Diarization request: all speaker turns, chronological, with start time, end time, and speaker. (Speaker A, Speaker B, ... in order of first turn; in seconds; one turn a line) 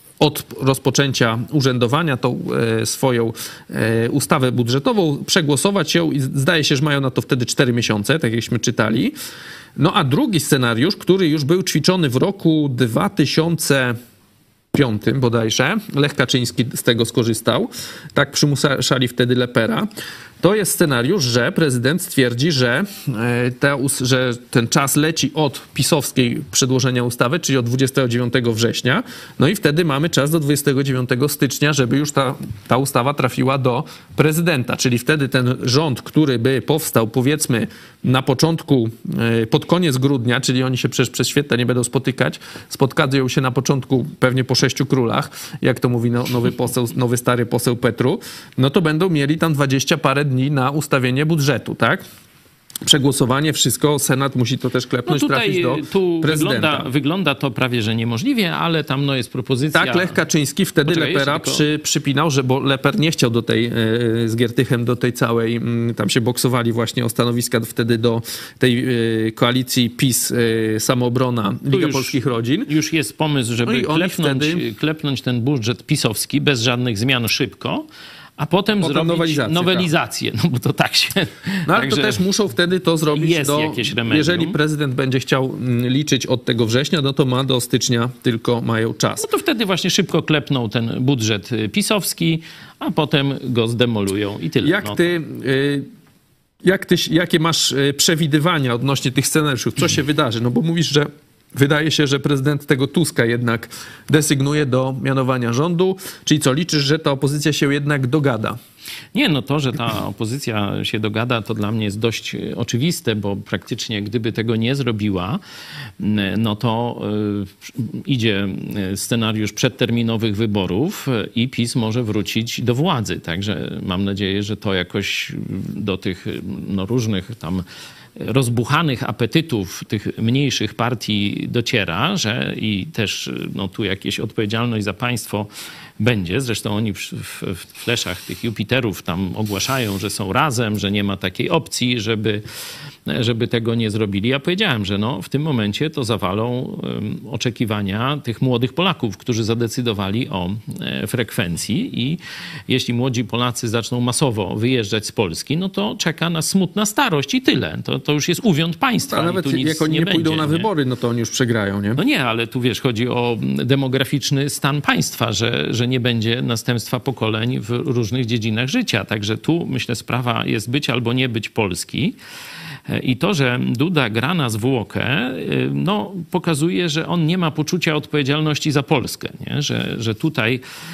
Speaker A: 0.2-9.1
Speaker A: 9.8-13.9
Speaker A: 14.7-19.9
Speaker A: 20.4-52.0
Speaker A: 52.8-56.9
Speaker B: 55.1-60.2
Speaker A: 59.7-72.7
Speaker B: 60.9-61.6
Speaker B: 71.7-77.9
Speaker A: 73.6-74.7
Speaker B: 78.4-82.2
Speaker A: 78.8-79.9
Speaker A: 81.7-89.3
Speaker B: 83.1-84.6
Speaker B: 89.2-95.1
Speaker A: 94.6-95.9
Speaker A: 96.6-108.6
Speaker B: 109.1-115.4
Speaker B: 116.0-127.6
Speaker B: 128.2-142.4
Speaker B: 143.1-160.7
Speaker A: 159.1-162.0
Speaker B: 162.0-172.2
Speaker B: 172.9-180.6